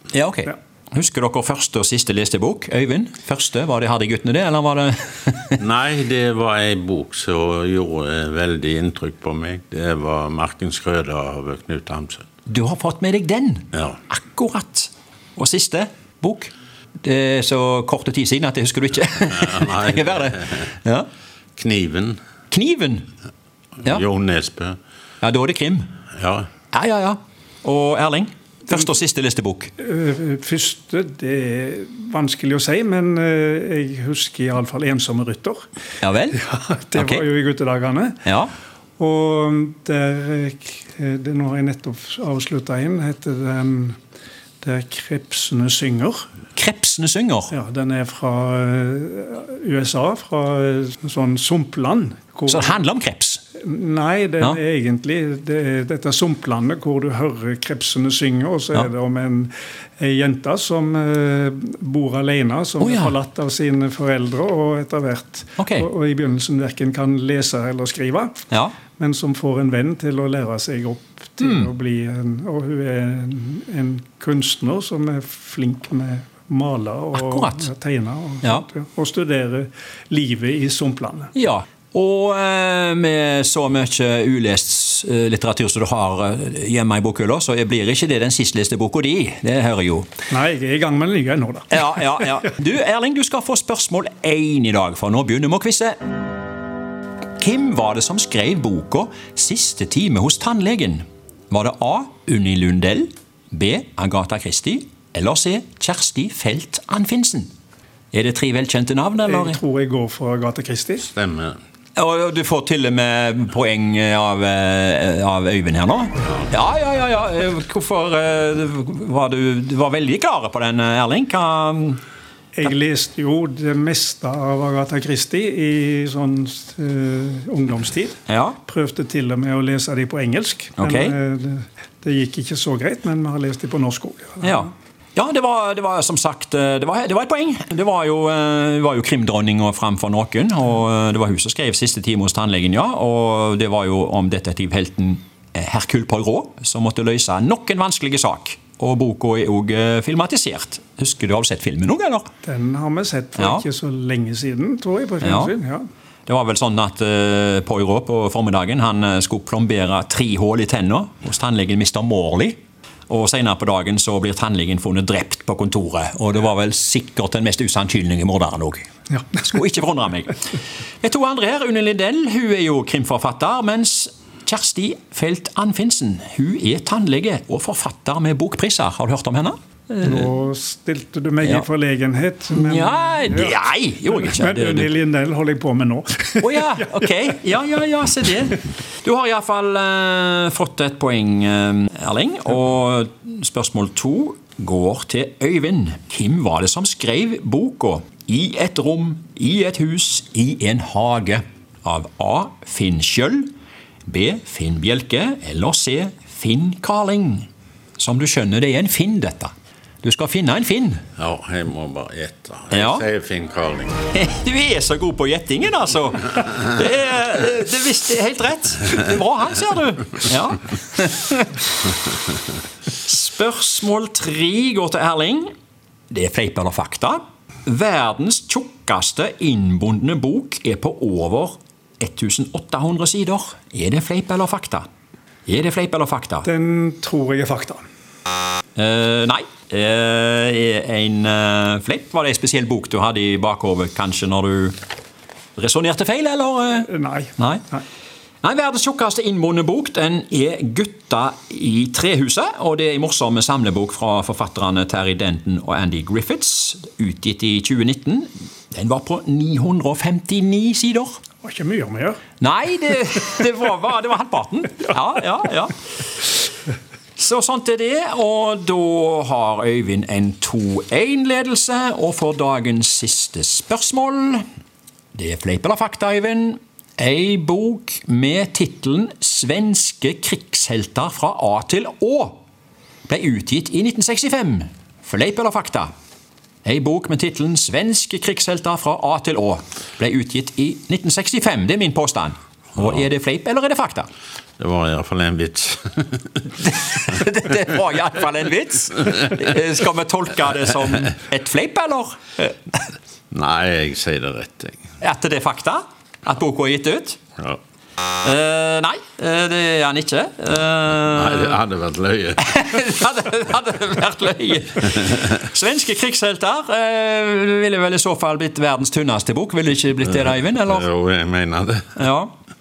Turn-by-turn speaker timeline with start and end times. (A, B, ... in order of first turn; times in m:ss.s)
0:00.1-0:05.6 A
0:05.6-0:12.2 B
0:12.5-0:21.1 A
0:19.3-0:20.6 B
0:21.6-0:22.2 B
0:22.5-0:23.1 A
0:23.8-0:24.8 B
0:25.2-0:25.9 A
0:26.2-0:26.5 B
0:26.7-0:29.7 A
0:29.8-0:35.7 C
0:36.0-0:36.4 A
0:36.3-0:38.2 C
0:36.9-0:37.2 A
0:38.2-0:38.5 A
0:39.0-0:44.0 C
0:44.6-0:46.2 C
0:46.6-0:47.5 A
0:47.5-0:52.8 C
0:52.5-0:53.4 A
0:53.6-1:08.4 C
1:02.8-1:03.2 A
1:05.6-1:05.9 A
1:08.5-1:08.8 A
1:08.9-1:21.3 C
1:11.4-1:11.7 A
1:17.1-1:17.7 A
1:21.3-1:30.1 A
1:30.3-1:32.3 C
1:31.7-1:35.9 A
1:37.4-1:47.5 A
1:48.1-1:49.6 A
1:49.2-1:51.1 C
1:51.0-1:51.6 B
1:52.0-2:02.0 A
2:02.6-2:14.7 C
2:08.3-2:08.6 A
2:10.8-2:11.2 A
2:14.4-2:32.3 A
2:32.4-2:35.8 C
2:33.4-2:33.6 A
2:35.2-2:35.5 A
2:36.3-2:50.4 A
2:51.0-3:00.3 A
3:00.0-3:03.6 C
3:01.4-3:01.7 A
3:02.5-3:05.0 A
3:04.1-3:06.9 C
3:06.4-3:23.5 A
3:24.1-3:27.5 A
3:28.0-3:29.5 A
3:30.0-3:31.0 A
3:31.2-3:34.0 B
3:32.7-3:33.0 A
3:34.1-3:41.5 A
3:43.0-3:45.5 A
3:46.1-3:54.8 A
3:55.5-3:56.5 A
3:56.4-3:57.8 C
3:58.8-4:04.8 A
4:05.6-4:07.7 A
4:06.8-4:07.8 C
4:08.4-4:21.2 A
4:21.4-4:22.2 C
4:22.4-4:25.7 A
4:27.2-4:34.4 A
4:35.1-4:42.4 A
4:43.1-4:45.9 A
4:46.6-4:54.1 A
4:54.6-4:56.4 B
4:56.6-5:02.8 A
5:03.3-5:04.8 B
5:05.0-5:07.2 A
5:08.2-5:11.6 A
5:11.1-5:12.5 B
5:12.4-5:20.9 A
5:20.0-5:22.0 B
5:22.0-5:22.3 A